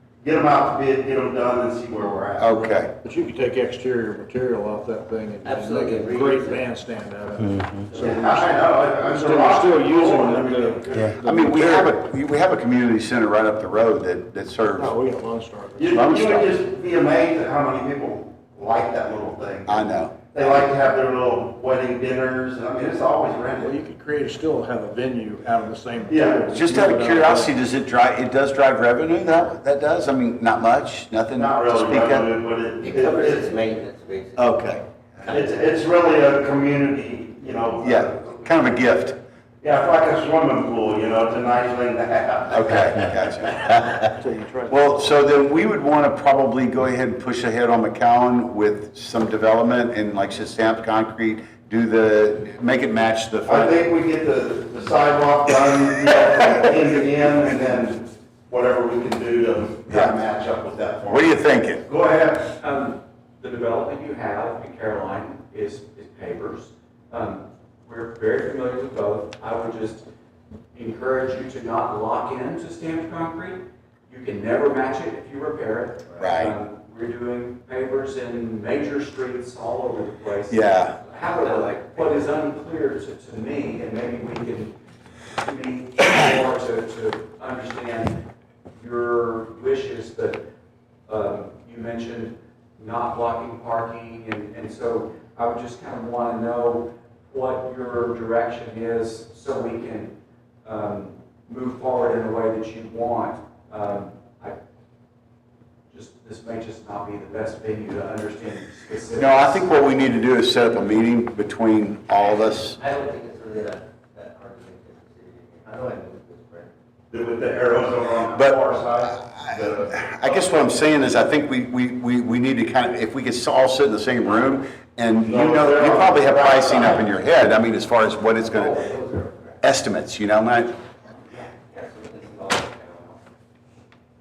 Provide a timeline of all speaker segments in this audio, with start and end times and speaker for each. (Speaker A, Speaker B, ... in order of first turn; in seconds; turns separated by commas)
Speaker A: 0.2-2.8, Speaker B: 2.4-2.9, Speaker C: 3.0-11.9, Speaker D: 5.4-6.7, Speaker A: 7.9-11.1, Speaker B: 11.0-14.9, Speaker C: 14.7-16.4, Speaker A: 15.8-23.8, Speaker B: 16.1-16.4, Speaker B: 19.7-20.1, Speaker C: 23.6-27.5, Speaker A: 26.1-26.4, Speaker B: 26.5-32.3, Speaker A: 31.3-33.6, Speaker D: 32.8-35.6, Speaker B: 34.4-34.8, Speaker A: 35.2-38.5, Speaker B: 37.8-39.2, Speaker A: 39.6-42.9, Speaker B: 42.5-44.1, Speaker C: 44.0-45.0, Speaker B: 44.7-53.7, Speaker A: 53.4-62.5, Speaker B: 59.9-60.2, Speaker B: 61.1-61.8, Speaker E: 62.6-70.0, Speaker E: 70.7-84.7, Speaker B: 76.2-76.6, Speaker B: 80.5-81.0, Speaker E: 85.4-88.2, Speaker E: 88.8-90.5, Speaker E: 91.1-104.6, Speaker E: 105.9-109.8, Speaker B: 109.2-112.8, Speaker D: 112.3-116.7, Speaker A: 117.1-120.6, Speaker B: 119.1-128.8, Speaker A: 125.2-127.0, Speaker D: 128.3-129.6, Speaker B: 129.6-130.7, Speaker D: 131.3-133.2